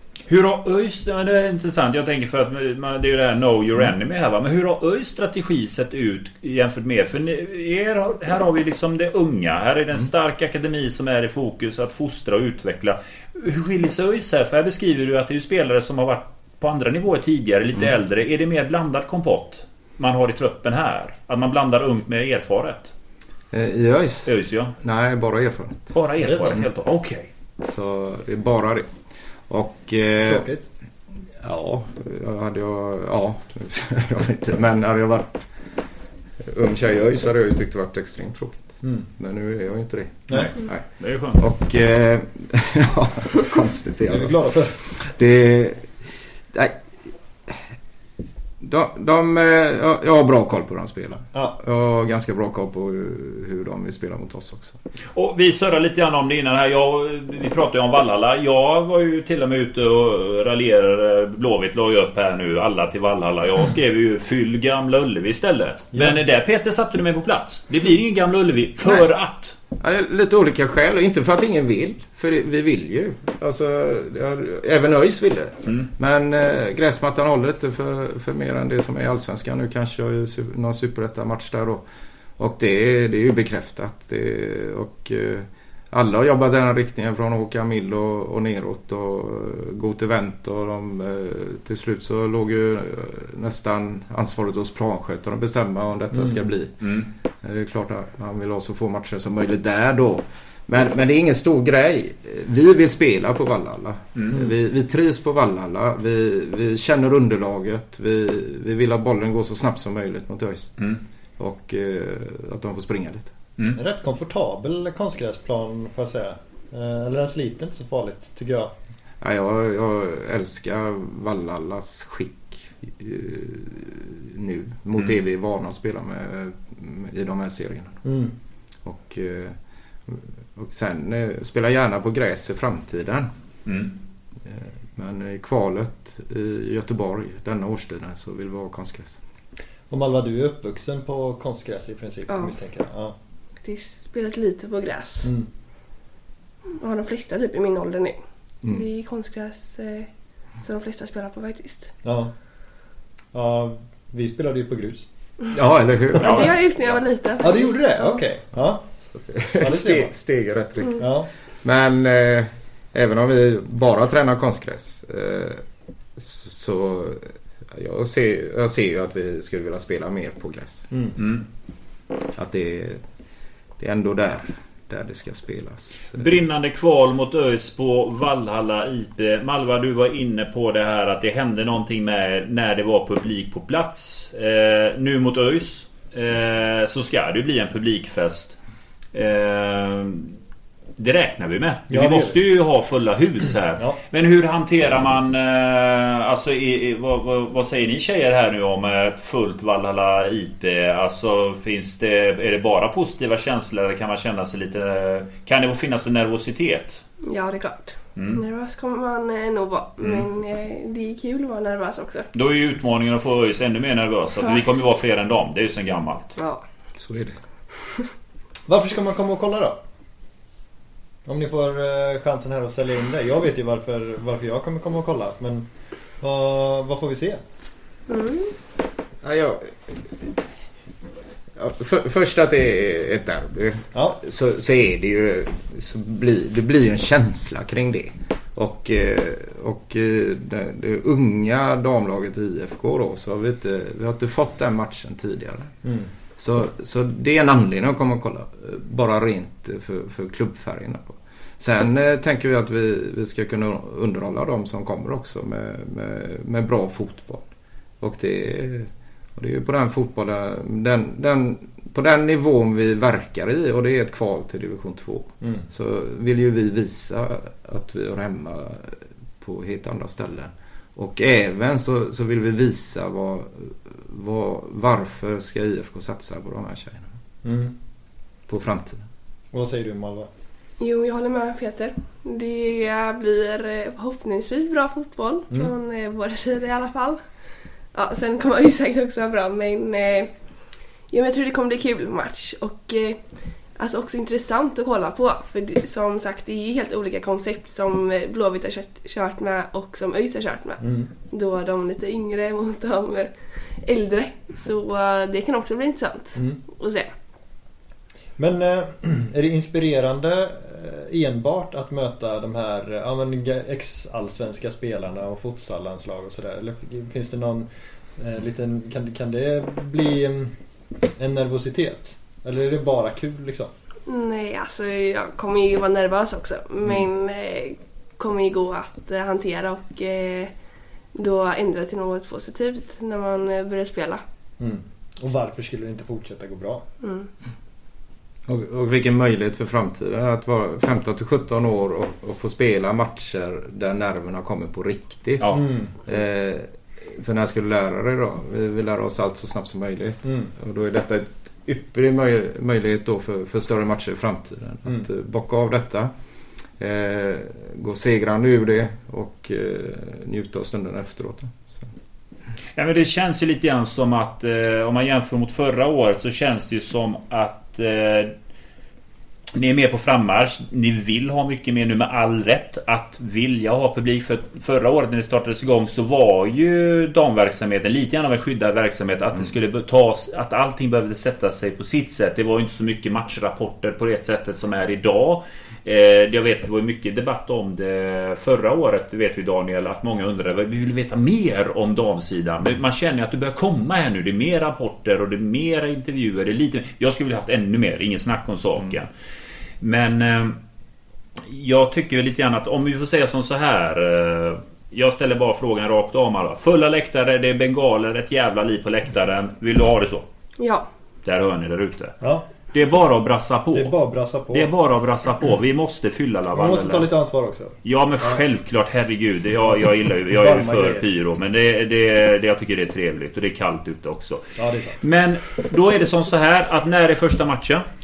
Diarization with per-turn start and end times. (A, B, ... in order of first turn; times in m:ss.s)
0:00.3-0:22.9 A
0:23.5-0:25.9 B
0:24.3-0:24.7 A
0:25.9-0:27.3 A
0:26.2-0:26.6 C
0:27.6-0:28.9 B
0:29.5-0:30.5 B
0:30.2-0:30.7 C
0:31.4-0:35.5 B
0:36.4-0:40.9 B
0:40.3-0:41.4 A
0:41.4-0:46.8 B
0:44.1-0:44.8 C
0:48.6-0:54.8 B
0:55.1-1:09.6 A
1:09.8-1:21.8 B
1:22.4-1:36.9 B
1:36.1-1:36.4 C
1:36.8-1:37.1 A
1:37.4-1:50.7 B
1:51.4-1:53.3 B
1:53.8-1:58.7 C
1:59.2-2:08.0 B
2:08.0-2:08.3 C
2:08.8-2:09.6 B
2:10.1-2:13.3 B
2:13.7-2:13.9 A
2:14.4-2:19.2 B
2:19.9-2:23.2 C
2:23.6-2:25.3 D
2:26.8-2:30.1 D
2:30.6-2:31.9 D
2:32.0-2:32.3 C
2:33.3-2:35.1 C
2:35.5-2:36.6 B
2:36.2-2:38.2 D
2:36.2-2:36.5 A
2:37.4-2:38.9 C
2:39.2-2:45.6 B
2:39.6-2:40.1 C
2:41.0-2:41.3 C
2:46.2-2:50.9 B
2:50.9-2:51.2 C
2:51.2-2:51.4 A
2:52.4-2:53.0 B
2:53.8-2:56.3 B
2:56.2-3:08.6 A
3:09.1-3:10.3 A
3:11.0-3:27.0 A
3:11.9-3:12.4 C
3:27.2-3:32.3 D
3:28.2-3:28.4 A
3:32.3-3:36.4 A
3:36.4-3:36.6 D
3:37.0-3:37.4 B
3:38.7-3:39.8 C
3:41.2-3:45.7 C
3:46.2-3:47.4 C
3:48.1-3:48.5 D
3:49.2-3:50.3 B
3:51.6-4:05.7 B
3:53.9-3:54.2 C
4:05.8-4:06.1 C
4:06.4-4:17.4 B
4:18.0-4:37.1 B
4:37.4-4:37.8 C
4:38.5-4:39.0 B
4:39.5-4:40.3 C
4:40.8-4:47.2 D
4:47.9-4:50.3 D
4:51.1-4:53.2 D
4:53.8-5:03.3 D
5:00.8-5:01.1 C
5:03.8-5:07.1 D
5:08.4-5:20.5 C
5:21.2-5:23.7 C
5:24.1-5:30.5 D
5:31.2-5:34.2 D
5:34.6-5:36.8 C
5:37.0-5:37.3 D
5:38.5-5:56.1 B
5:45.4-5:45.7 A
5:45.5-5:45.9 C
5:50.2-5:50.5 C
5:56.8-6:01.9 B
6:02.8-6:08.3 A
6:09.6-6:39.1 A
6:39.8-6:40.6 A
6:41.4-6:50.2 A
6:50.6-6:50.9 D
6:51.2-6:52.2 A
6:52.7-6:53.9 A
6:53.7-6:54.7 C
6:54.5-6:57.1 A
6:56.5-6:58.4 C
6:57.8-7:07.9 A
7:00.3-7:01.0 C
7:04.6-7:05.0 C